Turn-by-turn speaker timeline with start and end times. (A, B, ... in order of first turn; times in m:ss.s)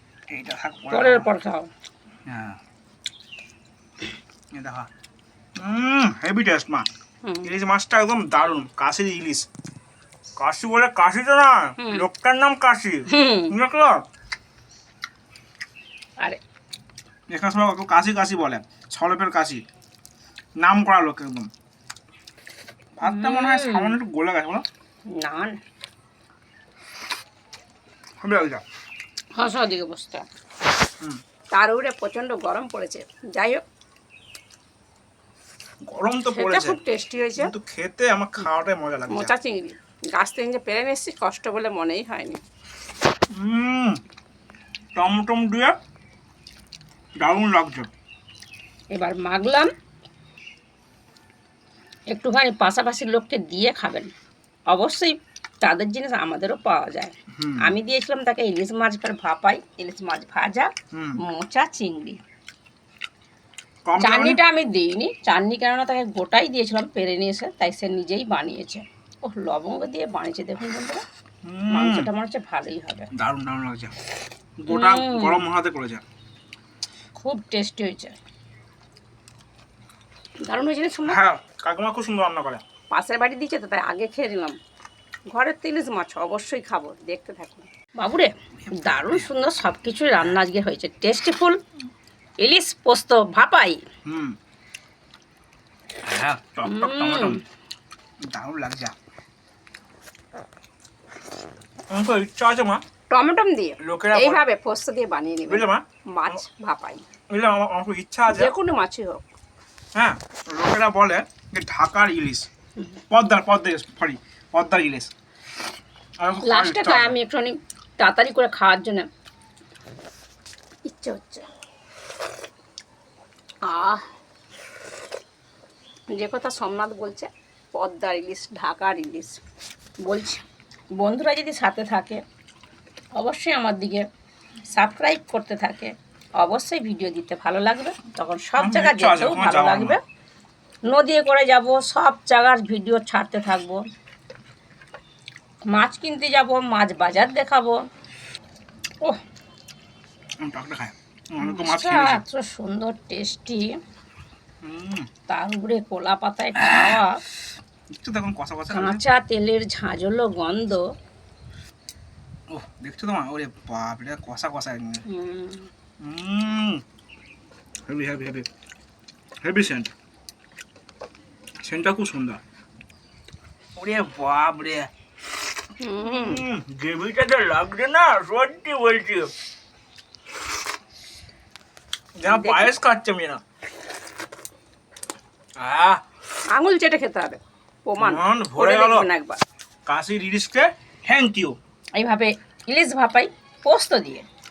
0:00.3-0:01.3 A
0:00.9-0:01.7 B
0:02.3-0:02.6 A
0:04.5-0:04.9 A
0:05.6-0:06.9 A
0:07.2-0:07.5 B
0:07.4-0:09.5 A
0:10.4-0:14.0 A
0:11.8-0:12.0 B
0:13.1-0:13.5 B
0:17.3-0:19.6 A
0:20.6-0:21.5 A
0:23.0-0:24.6 A
0:23.0-0:24.0 B
0:25.1-0:25.6 B
0:28.2-0:28.6 A
0:29.4-0:30.2 B
0:31.5-0:33.6 B
0:35.8-0:36.8 A
0:36.3-0:37.5 B
0:37.4-0:39.3 A
0:39.1-0:42.4 B
0:43.3-0:44.0 A
0:44.9-0:45.8 A
0:47.2-0:47.9 A
0:48.9-0:49.7 B
0:52.1-0:54.1 B
0:54.7-1:02.2 B
0:57.3-0:57.7 A
1:00.9-1:01.2 A
1:03.9-1:04.4 A
1:04.0-1:11.0 B
1:11.4-1:12.1 A
1:11.7-1:13.1 B
1:13.1-1:13.9 A
1:14.6-1:16.0 A
1:14.7-1:15.4 B
1:17.2-1:18.2 B
1:20.4-1:21.2 B
1:21.0-1:22.6 A
1:22.9-1:24.6 B
1:25.3-1:31.6 B
1:28.6-1:29.3 A
1:32.4-1:33.8 B
1:34.0-1:34.3 A
1:36.0-1:37.4 A
1:36.6-1:37.4 B
1:38.3-1:38.9 A
1:41.9-1:42.8 A
1:43.1-1:47.0 B
1:43.8-1:44.4 A
1:45.5-1:46.4 A
1:47.3-1:48.5 A
1:48.3-1:49.2 B
1:49.9-1:52.5 A
1:53.1-1:55.1 A
1:56.2-1:57.2 A
1:56.4-1:59.1 B
2:00.9-2:01.4 B
2:03.6-2:04.0 B
2:06.1-2:09.4 B
2:10.0-2:10.4 B
2:11.0-2:12.2 B
2:13.2-2:14.0 B
2:14.7-2:20.0 B
2:18.6-2:20.0 A
2:20.9-2:23.8 B
2:25.7-2:27.8 B
2:30.4-2:32.2 A
2:31.4-2:33.7 B
2:34.6-2:35.1 A
2:35.3-2:37.2 B
2:36.6-2:37.0 A
2:37.9-2:39.0 A
2:38.7-2:40.8 B
2:42.5-2:45.0 A
2:45.1-2:45.7 B
2:46.0-2:46.8 A
2:47.9-2:48.5 A
2:49.4-2:49.9 A
2:51.6-2:52.4 A
2:53.8-2:54.9 A
2:55.8-2:56.4 B
2:56.0-2:59.3 A
3:02.2-3:03.4 A
3:02.2-3:02.7 B
3:05.6-3:06.0 A
3:06.5-3:09.4 B
3:08.0-3:09.1 A
3:09.8-3:11.6 A
3:12.0-3:14.2 B